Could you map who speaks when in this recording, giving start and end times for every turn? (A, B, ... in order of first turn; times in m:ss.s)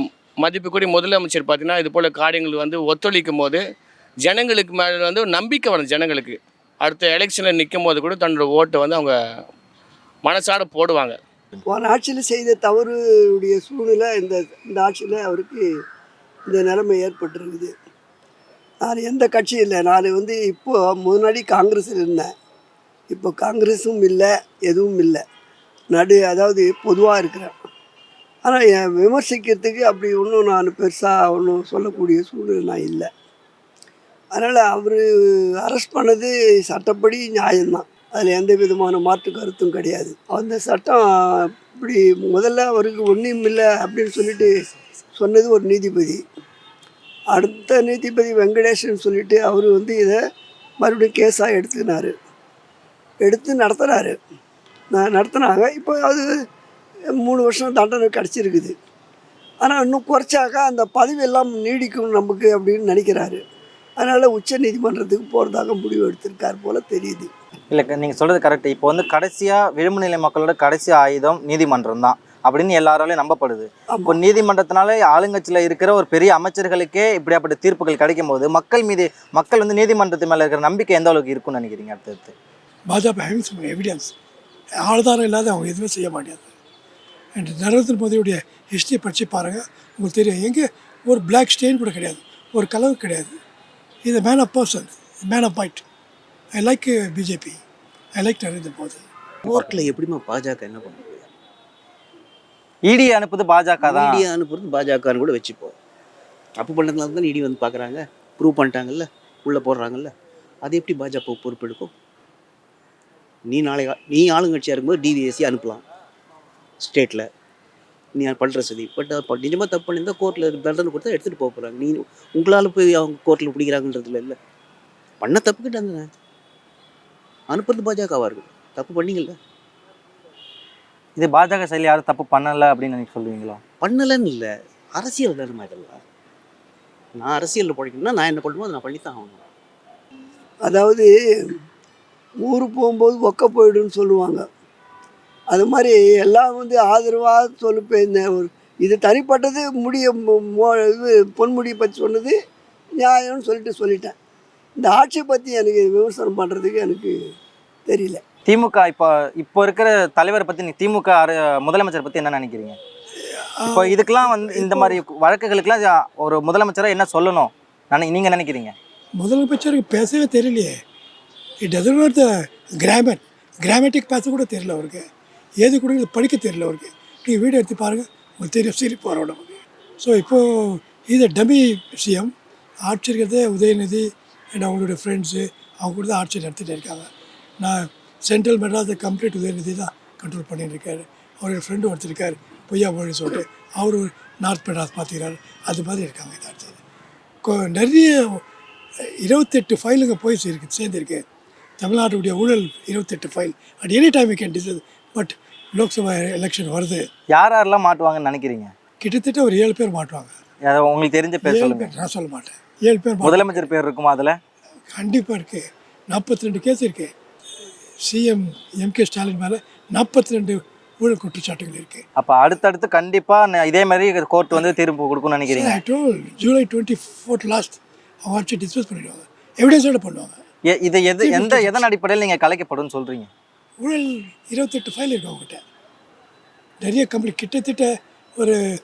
0:00.4-0:03.6 A
0:04.2-0:09.2 A
0:10.2-0:11.2 A
0:11.7-0:15.6 B
0:16.5-0:17.7 B
0:18.8-0:22.3 B
0:23.1-0:25.2 B
0:25.9-0:27.5 B
0:28.4-0:33.1 B
0:34.3-0:35.0 B
0:35.6-0:41.0 B
0:41.8-0:44.5 B
0:45.2-0:46.2 B
0:47.3-0:50.2 B
0:50.8-0:52.2 B
0:53.2-0:54.2 B
0:54.9-0:56.3 B
0:57.2-0:58.8 B
0:59.6-1:03.4 B
1:04.0-1:07.3 B
1:07.7-1:22.3 C
1:22.9-1:24.1 D
1:24.8-1:26.5 D
1:27.4-1:33.4 D
1:34.0-1:35.8 D
1:36.5-1:37.6 D
1:38.2-1:39.0 D
1:39.5-1:41.3 E
1:39.5-1:39.8 C
1:42.8-1:44.2 C
1:43.8-1:45.7 E
1:46.6-1:50.1 E
1:50.6-1:51.9 E
1:53.5-1:55.8 E
1:56.8-1:57.3 E
1:58.2-2:04.4 E
2:05.2-2:06.1 E
2:07.5-2:09.4 E
2:11.2-2:13.6 C
2:13.8-2:16.0 E
2:17.2-2:19.5 E
2:20.6-2:21.1 B
2:22.4-2:24.4 B
2:25.5-2:32.3 B
2:33.0-2:34.2 B
2:34.8-2:37.1 B
2:37.9-2:38.2 B
2:38.5-2:42.8 C
2:43.2-2:45.0 D
2:43.7-2:48.8 C
2:49.2-2:50.8 D
2:51.6-2:55.0 D
2:55.6-3:02.3 D
3:02.9-3:07.1 D
3:07.6-3:16.8 D
3:17.4-3:18.4 D
3:19.2-3:21.2 D
3:21.8-3:27.0 D
3:27.3-3:28.7 C
3:29.0-3:30.3 D
3:30.6-3:31.9 C
3:31.4-3:33.7 D
3:33.2-3:34.4 C
3:34.9-3:37.1 D
3:38.0-3:42.0 D
3:42.2-3:45.8 C
3:45.5-3:50.4 D
3:50.7-3:53.3 C
3:51.2-3:51.9 D
3:53.8-3:55.6 D
3:56.8-3:58.6 D